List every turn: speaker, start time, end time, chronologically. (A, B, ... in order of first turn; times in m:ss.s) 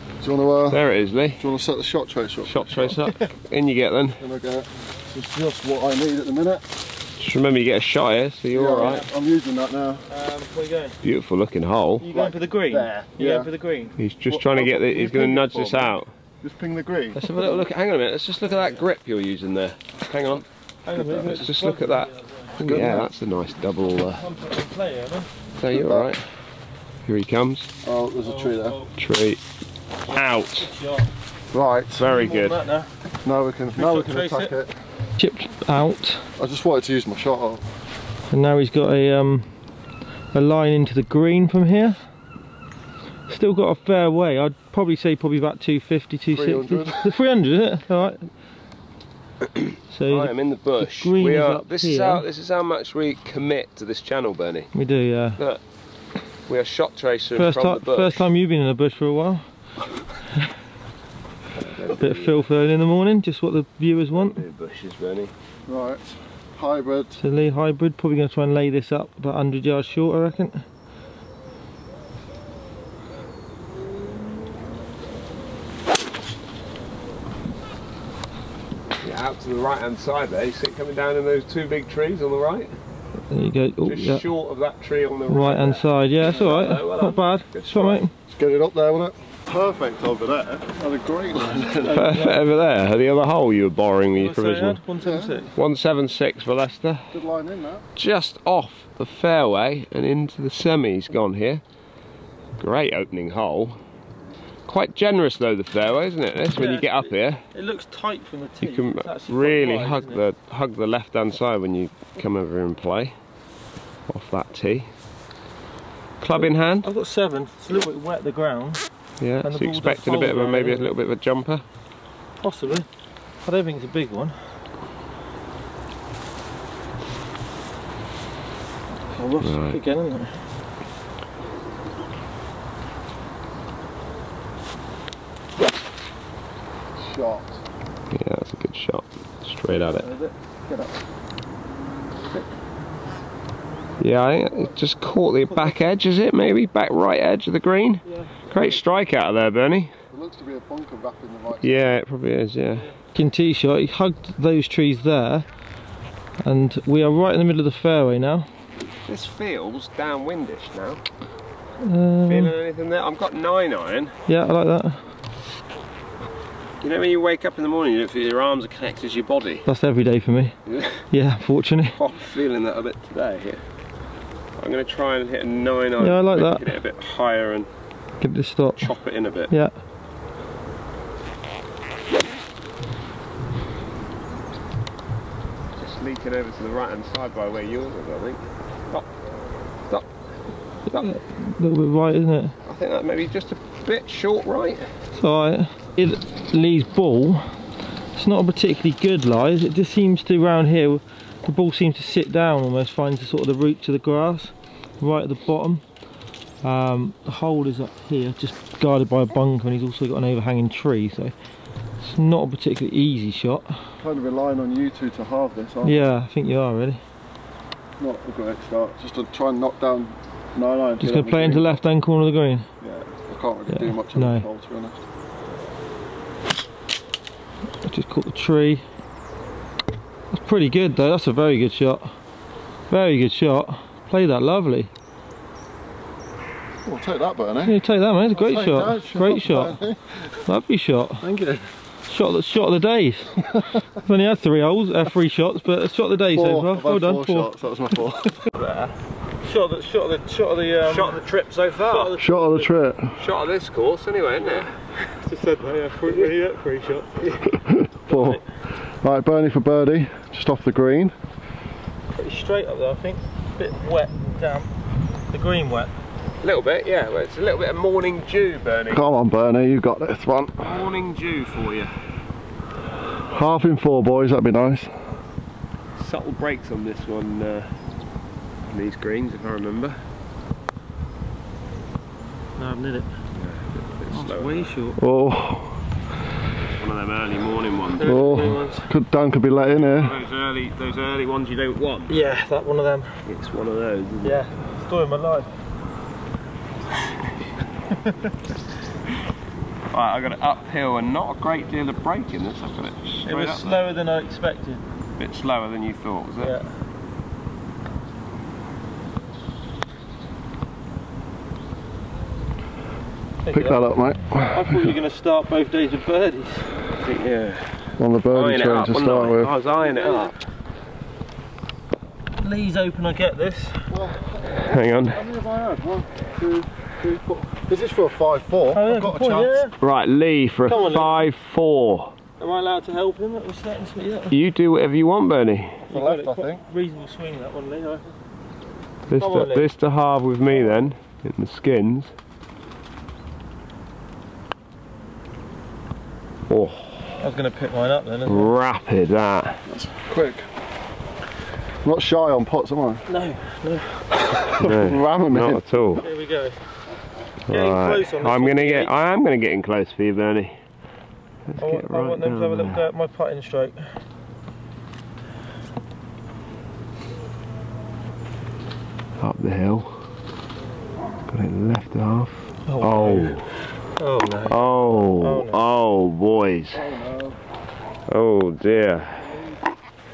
0:00.2-0:00.8 A
0:00.7-0:01.4 B
0:01.4-0:03.0 A
0:02.5-0:04.2 B
0:04.2-0:06.7 A
0:07.2-0:09.0 B
0:08.5-0:10.1 A
0:10.1-0:11.0 C
0:11.0-0:12.1 B
0:12.0-0:14.0 C
0:12.1-0:13.5 A
0:14.0-0:16.1 B
0:14.3-0:17.2 A
0:17.2-0:20.5 B
0:17.2-0:17.6 C
0:20.8-0:22.6 C
0:21.0-0:24.2 B
0:22.6-0:23.1 A
0:24.0-0:25.3 C
0:25.6-0:26.2 B
0:25.7-0:26.1 A
0:27.1-0:27.7 B
0:27.8-0:28.8 A
0:28.2-0:28.9 C
0:29.0-0:29.4 B
0:30.1-0:30.7 B
0:30.6-0:31.1 C
0:31.5-0:32.1 A
0:32.0-0:32.6 B
0:32.0-0:32.9 C
0:33.2-0:34.8 A
0:33.8-0:34.5 C
0:35.2-0:36.3 C
0:36.4-0:37.6 A
0:38.3-0:39.5 C
0:40.3-0:42.0 C
0:43.3-0:48.3 C
0:46.3-0:47.2 A
0:49.5-0:54.7 B
0:49.9-0:52.2 C
0:54.7-0:55.4 C
0:56.5-0:58.3 B
0:57.4-0:59.4 C
1:01.6-1:02.5 B
1:02.0-1:04.4 C
1:04.1-1:05.3 B
1:05.7-1:07.2 A
1:07.2-1:10.7 C
1:19.0-1:22.7 B
1:23.3-1:24.2 C
1:23.8-1:28.0 B
1:25.3-1:28.1 C
1:28.3-1:32.2 A
1:31.6-1:32.4 C
1:31.9-1:34.8 B
1:34.2-1:35.5 C
1:35.0-1:35.4 A
1:35.6-1:37.2 B
1:37.1-1:37.9 A
1:38.0-1:41.6 B
1:42.6-1:43.8 B
1:44.7-1:47.4 B
1:46.5-1:50.2 C
1:48.6-1:53.2 B
1:54.1-1:54.9 B
1:56.2-1:56.9 B
1:56.4-1:58.8 C
1:59.2-2:01.6 B
1:59.4-2:00.9 C
2:02.4-2:02.9 C
2:03.4-2:04.4 C
2:09.1-2:10.4 C
2:09.4-2:09.8 B
2:17.0-2:17.6 A
2:18.1-2:20.1 B
2:20.0-2:20.3 C
2:24.0-2:29.9 B
2:28.1-2:28.6 C
2:30.1-2:31.8 A
2:31.6-2:32.9 B
2:33.0-2:35.5 C
2:36.4-2:38.5 C
2:39.0-2:41.0 B
2:41.8-2:42.5 C
2:42.3-2:44.2 B
2:44.3-2:45.0 C
2:46.8-2:49.6 B
2:49.7-2:50.6 C
2:50.7-2:51.0 B
2:51.1-2:52.0 C
2:52.0-2:53.6 B
2:54.6-2:57.7 B
2:56.0-2:56.7 C
2:58.2-2:58.8 C
2:58.8-2:59.5 B
3:05.8-3:09.1 B
3:10.9-3:12.6 C
3:12.6-3:14.9 B
3:15.2-3:17.6 C
3:18.2-3:25.8 C
3:26.6-3:31.4 C
3:32.0-3:33.8 C
3:34.0-3:36.0 A
3:35.8-3:37.0 C
3:38.0-3:41.8 A
3:41.0-3:42.7 C
3:42.8-3:45.0 A
3:43.7-3:44.4 C
3:47.8-3:48.8 C
3:50.3-3:52.1 C
3:52.9-3:54.9 C
3:56.8-3:57.8 A
3:57.6-3:59.8 C
3:58.3-4:00.4 A
4:00.5-4:01.3 C
4:01.2-4:01.7 A
4:02.1-4:07.5 C
4:06.3-4:08.4 A
4:08.5-4:09.0 B
4:09.4-4:11.2 C
4:10.8-4:12.1 B
4:11.9-4:12.7 C
4:12.2-4:13.2 A
4:13.2-4:14.8 B
4:15.1-4:17.3 C
4:17.5-4:18.4 A
4:18.1-4:18.4 C
4:19.0-4:21.2 A
4:22.1-4:24.7 C
4:25.3-4:25.9 C
4:26.4-4:29.0 B
4:28.9-4:30.9 A
4:30.6-4:31.9 B
4:33.2-4:35.0 A
4:36.0-4:37.8 B
4:38.7-4:40.0 B
4:42.6-4:43.1 C
4:43.4-4:44.7 B
4:44.1-4:45.0 C
4:45.0-4:45.8 A
4:46.7-4:48.3 B
4:48.0-4:48.9 C
4:48.0-4:50.2 A
4:49.9-4:52.2 B
4:52.1-4:53.2 C
4:53.3-4:54.4 B
4:54.2-4:55.5 C
4:58.0-4:58.3 C
4:59.9-5:03.8 B
5:03.3-5:04.8 C
5:05.2-5:06.6 B
5:06.4-5:06.7 C
5:13.4-5:13.8 C
5:13.5-5:14.9 A
5:14.5-5:16.7 C
5:17.0-5:20.3 B
5:18.0-5:19.6 A
5:22.4-5:24.0 C
5:23.9-5:29.6 A
5:24.5-5:25.3 B
5:28.7-5:29.7 C
5:29.8-5:32.2 B
5:30.7-5:31.3 C
5:32.4-5:34.4 C
5:34.3-5:35.9 B
5:35.9-5:36.6 A
5:35.9-5:38.1 C
5:39.1-5:42.1 B
5:39.2-5:39.7 C
5:46.5-5:47.2 B
5:47.2-5:48.5 C
5:48.3-5:49.6 B
5:49.7-5:50.4 A
5:51.8-5:53.0 A
5:53.1-5:54.5 C
5:54.5-5:55.6 A
5:54.5-5:56.0 B
5:56.0-5:56.6 C
5:57.5-5:58.9 C
5:57.5-6:00.6 B
6:01.5-6:02.8 B
6:01.6-6:03.9 C
6:09.2-6:10.0 B
6:11.3-6:13.5 B
6:12.7-6:13.4 C
6:14.0-6:15.6 C
6:14.5-6:16.9 B
6:16.7-6:17.4 A
6:18.1-6:19.4 B
6:19.2-6:19.5 A